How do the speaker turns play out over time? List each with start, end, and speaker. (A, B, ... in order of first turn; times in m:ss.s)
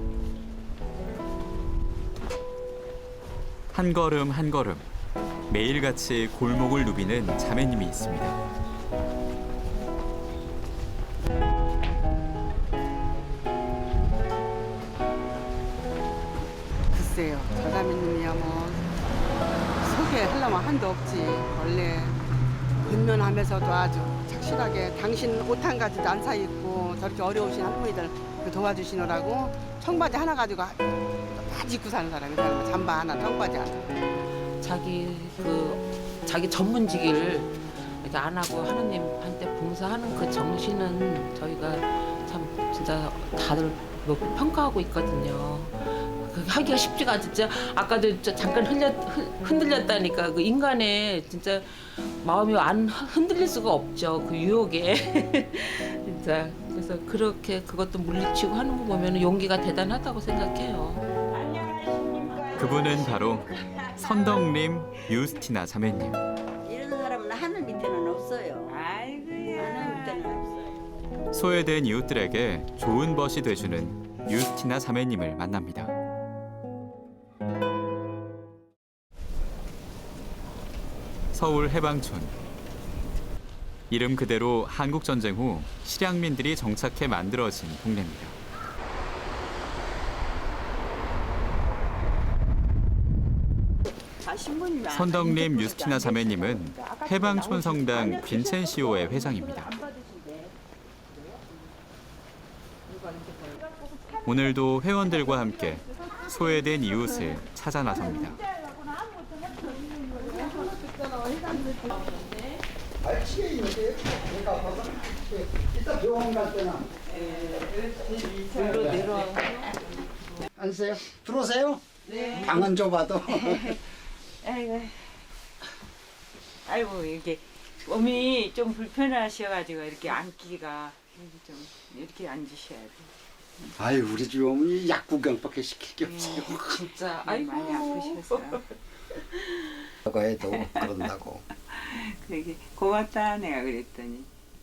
0:03.7-0:04.8 A
0:05.5-0:08.4 A
0:16.9-0:18.9 B
0:19.8-0:22.2 B
0:22.8-0:30.8 B
0:31.3-0:33.9 B
0:34.6-1:01.0 C
1:01.3-1:04.4 D
1:02.6-1:06.2 A
1:06.6-1:08.8 E
1:08.7-1:10.5 D
1:09.5-1:10.6 E
1:11.3-1:15.9 A
1:21.3-1:22.3 A
1:23.9-1:28.4 A
1:34.2-1:40.1 D
1:34.9-1:39.7 A
1:44.2-1:48.4 A
1:51.7-1:52.6 C
1:53.0-1:57.0 F
1:57.1-1:57.5 D
1:58.2-1:59.2 F
1:58.4-1:59.8 C
2:00.6-2:03.8 F
2:02.1-2:02.7 C
2:02.1-2:02.7 D
2:03.3-2:03.8 D
2:04.4-2:05.2 D
2:06.6-2:13.1 D
2:13.8-2:16.9 F
2:16.0-2:16.6 D
2:16.2-2:18.6 C
2:17.2-2:18.6 D
2:20.0-2:21.4 F
2:20.5-2:21.1 D
2:21.7-2:24.3 D